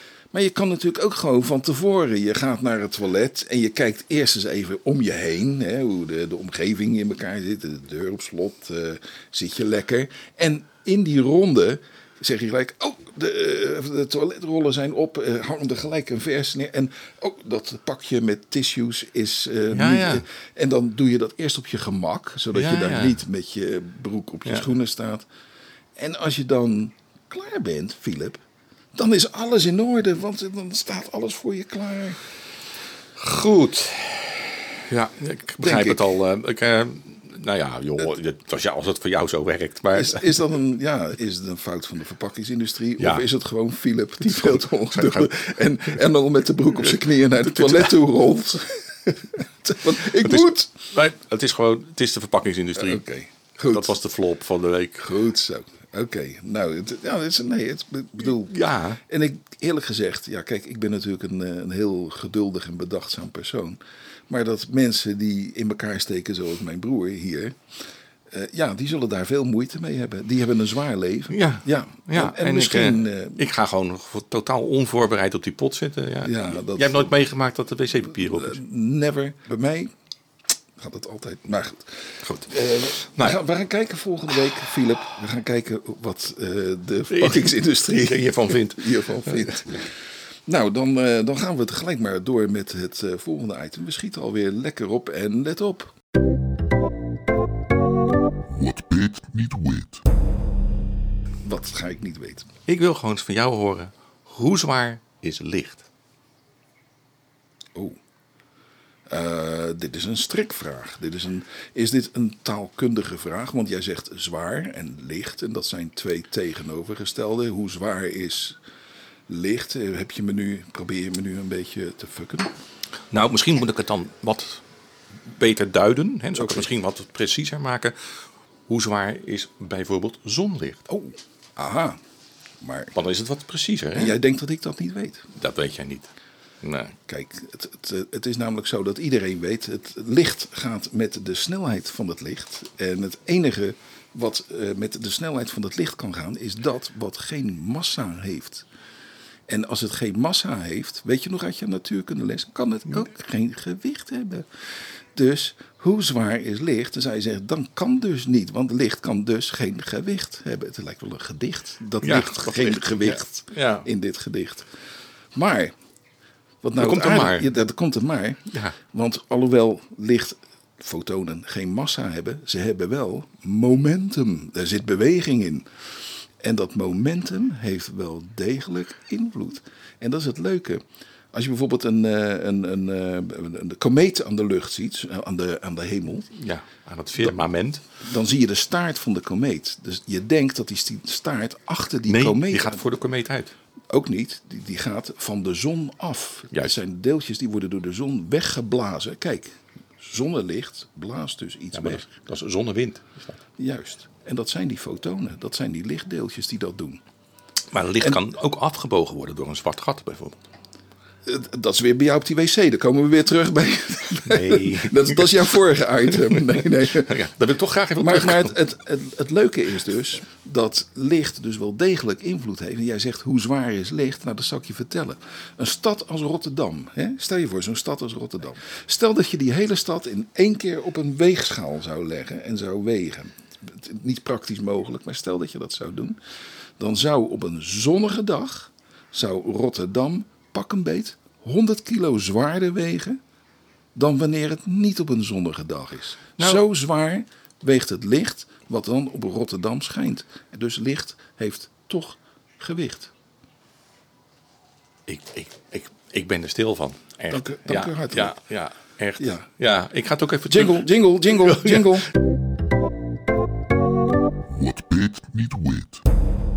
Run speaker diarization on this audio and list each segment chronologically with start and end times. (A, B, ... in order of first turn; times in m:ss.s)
0:00.3-0:25.2 A
0:19.7-0:20.2 B
0:22.5-0:23.2 B
0:26.0-0:28.4 A
0:28.9-0:32.2 A
0:33.2-0:40.4 B
0:35.6-0:36.1 A
0:39.9-0:50.7 A
0:43.0-0:43.2 B
0:44.2-0:45.4 B
0:46.8-0:47.9 B
0:50.0-0:53.0 B
0:52.8-0:54.0 A
0:53.6-0:55.1 B
0:55.0-1:07.6 A
0:58.3-0:59.0 B
1:08.3-1:13.4 A
1:11.3-1:18.6 B
1:16.2-1:17.1 A
1:18.1-1:19.9 A
1:20.8-1:29.9 A
1:22.2-1:23.4 B
1:27.1-1:29.8 B
1:30.4-1:35.9 A
1:38.5-1:40.0 C
1:41.4-1:42.5 A
1:42.7-1:45.8 B
1:49.1-1:58.6 A
1:59.3-2:02.5 A
2:03.1-2:04.6 B
2:05.3-2:08.0 B
2:06.3-2:06.7 A
2:08.7-2:10.8 B
2:10.9-2:12.0 A
2:12.6-2:12.9 A
2:12.9-2:14.2 B
2:13.9-2:15.3 A
2:15.4-2:16.1 B
2:16.6-2:17.0 B
2:17.1-2:28.6 A
2:29.5-2:34.5 A
2:35.1-2:44.7 A
2:42.0-2:43.9 B
2:45.3-2:45.7 A
2:46.6-2:55.6 A
2:46.8-2:47.5 B
2:48.5-2:48.8 B
2:56.4-3:06.3 A
3:06.3-3:07.8 B
3:07.9-3:12.8 A
3:12.1-3:13.5 B
3:13.9-3:22.0 A
3:21.7-3:23.4 B
3:23.6-3:27.0 A
3:27.7-3:30.4 B
3:31.2-3:37.2 A
3:34.2-3:35.6 B
3:36.1-3:38.5 B
3:38.0-3:56.2 A
3:56.8-4:03.2 A
4:03.9-4:13.1 A
4:06.4-4:06.6 B
4:15.1-4:22.0 B
4:17.3-4:18.4 A
4:19.2-4:19.4 A
4:20.5-4:22.1 A
4:24.5-4:26.0 C